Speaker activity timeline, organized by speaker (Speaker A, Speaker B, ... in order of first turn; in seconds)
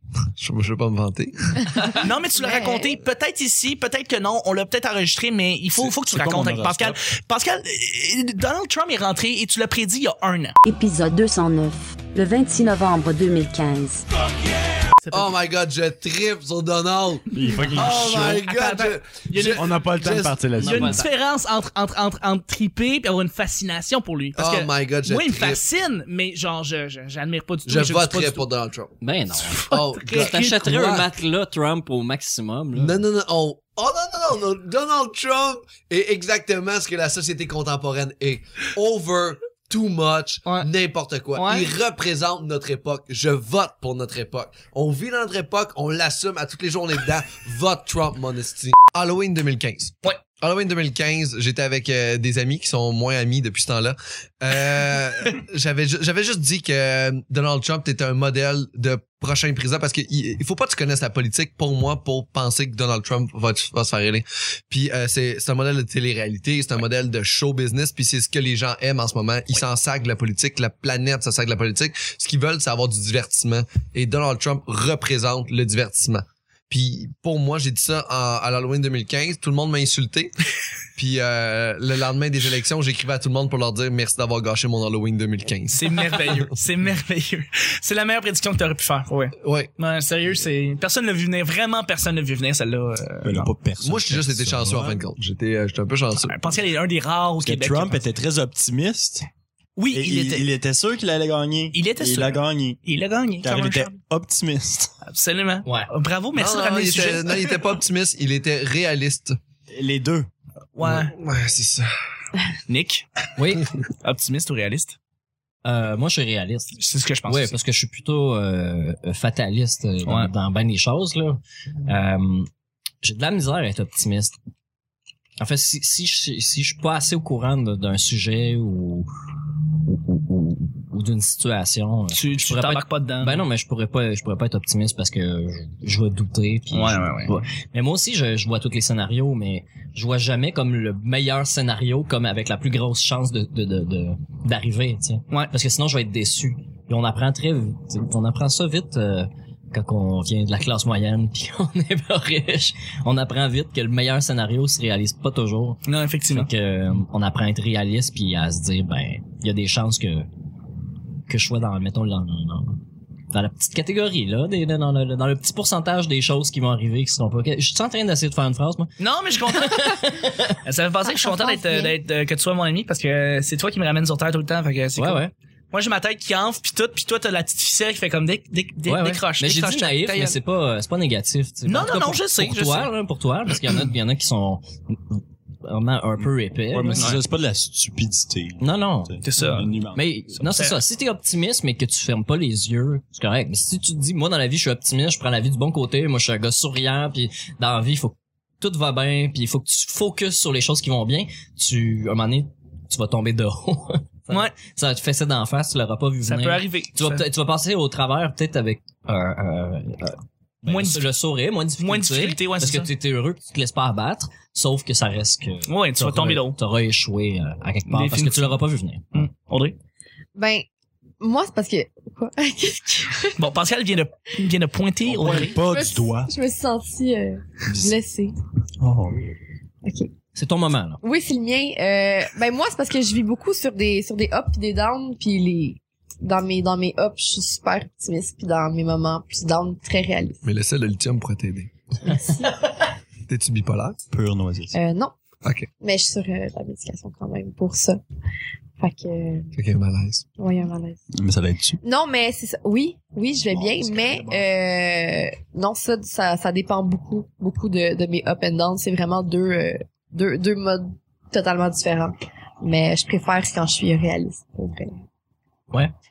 Speaker A: 0.4-2.0, 15.1-20.4, 24.4-25.6, 27.6-28.9, 29.7-31.1, 32.7-80.3, 81.0-86.5, 89.4-89.7, 93.8-96.4, 106.3-109.4, 110.8-111.9, 240.4-241.7, 243.3-244.0, 245.4-245.7, 249.5-250.2
Speaker B: 1.9-10.6, 15.0-15.3, 17.5-19.9, 20.6-28.5, 29.5-30.7, 40.5-40.7, 41.3-41.7, 85.7-93.5, 96.1-98.0, 99.8-100.5, 101.7-103.9, 105.1-107.6, 110.8-111.1, 112.7-113.1, 114.0-115.0, 116.8-117.6, 120.0-120.3, 132.1-133.4, 136.7-137.3, 155.8-156.5, 169.0-170.1, 170.6-180.4, 181.7-182.9, 186.9-187.2, 189.2-189.7, 190.4-190.8, 206.2-207.2, 210.7-211.1, 211.8-212.9, 215.7-216.6, 217.9-218.6, 219.1-219.8, 223.4-225.5
Speaker C: 2.4-2.9, 171.2-172.0, 220.3-220.7, 221.2-223.4, 225.5-228.3, 229.8-230.1, 231.0-240.4, 242.0-242.7, 244.7-245.1, 245.8-248.0, 248.8-249.5, 250.4-251.0, 251.8-264.9
Speaker D: 5.8-7.0, 17.3-18.3, 19.5-21.0, 93.2-95.0, 97.4-99.3, 99.9-102.8, 103.4-104.9, 109.7-110.3, 186.7-190.1, 225.1-226.3, 227.7-227.9, 228.8-229.2, 244.1-244.8, 251.1-251.8
Speaker E: 10.6-14.0
Speaker F: 20.6-21.1, 29.0-33.0, 105.6-105.9, 113.3-113.7, 115.6-122.5, 123.0-124.3, 125.4-129.1, 129.8-160.3, 161.3-170.6, 174.9-175.3, 178.8-187.1, 188.6-189.2, 189.9-219.2, 230.3-231.0